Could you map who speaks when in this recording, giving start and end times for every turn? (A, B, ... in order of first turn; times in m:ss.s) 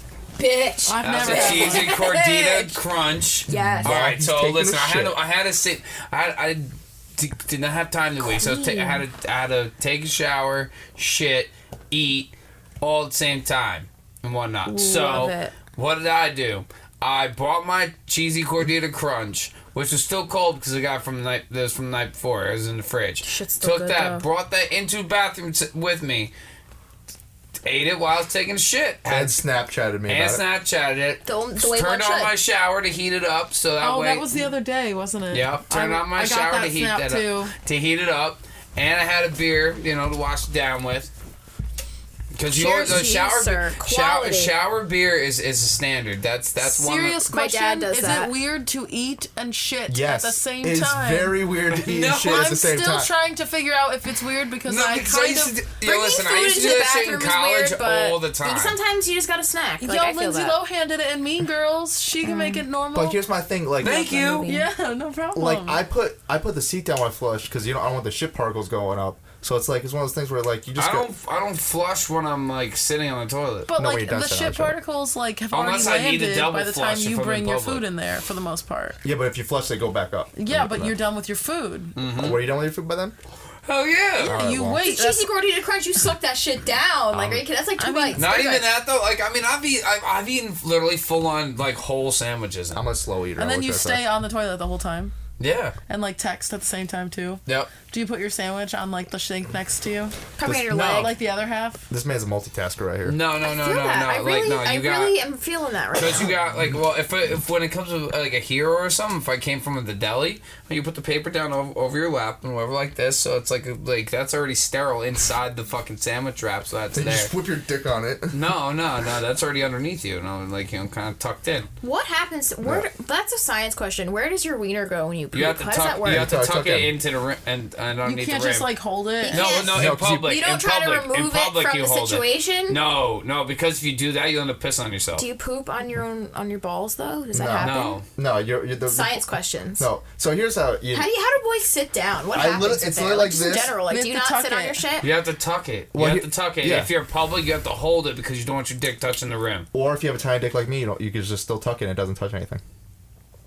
0:00.4-0:02.8 A
0:00.8-0:01.9 B
0:01.0-0:26.3 C
0:03.5-0:04.0 A
0:03.5-0:05.2 D
0:08.2-0:09.0 A
0:14.6-0:15.6 A
0:23.2-0:24.2 A
0:27.6-0:29.4 C
0:29.1-0:30.4 D
0:30.1-0:34.3 C
0:31.2-0:32.3 A
0:33.8-0:37.5 B
0:35.3-0:41.1 C
0:42.3-0:47.2 C
0:42.5-0:44.5 A
0:46.6-0:51.4 B
0:47.2-0:48.3 A
0:49.9-0:53.1 D
0:51.7-0:52.5 C
0:52.2-0:55.6 B
0:54.7-0:58.8 C
0:55.8-1:00.6 A
0:59.8-1:03.2 B
1:02.2-1:02.6 A
1:02.9-1:04.1 D
1:03.8-1:04.5 C
1:04.1-1:05.8 B
1:04.2-1:04.7 A
1:05.4-1:11.1 D
1:10.8-1:13.7 C
1:13.7-1:19.0 B
1:13.8-1:14.8 D
1:15.5-1:17.8 C
1:19.0-1:21.0 D
1:20.4-1:22.0 B
1:22.0-1:22.4 C
1:22.1-1:23.2 D
1:23.6-1:24.4 C
1:24.2-1:24.8 D
1:24.2-1:25.3 B
1:24.8-1:28.7 A
1:27.1-1:27.4 D
1:27.8-1:28.3 B
1:28.1-1:32.8 C
1:32.7-1:34.0 D
1:33.4-1:35.1 B
1:35.4-1:35.8 C
1:35.9-1:40.2 B
1:37.5-1:37.7 C
1:40.4-1:41.2 A
1:40.4-1:41.1 D
1:40.7-1:41.9 B
1:41.9-1:43.2 D
1:43.0-1:45.2 C
1:43.4-1:46.3 A
1:46.0-1:57.3 C
1:57.0-1:58.4 D
1:58.3-2:01.7 C
2:01.8-2:06.3 A
2:02.6-2:02.9 D
2:05.3-2:08.7 C
2:06.0-2:07.0 D
2:08.0-2:09.6 B
2:09.2-2:12.8 A
2:09.3-2:15.2 C
2:09.7-2:10.3 D
2:15.2-2:18.0 A
2:17.3-2:19.2 D
2:17.6-2:18.0 C
2:18.9-2:19.9 A
2:19.8-2:21.1 D
2:20.9-2:25.1 A
2:22.3-2:23.8 D
2:23.9-2:24.8 B
2:25.0-2:29.7 C
2:25.9-2:26.9 D
2:29.7-2:32.6 D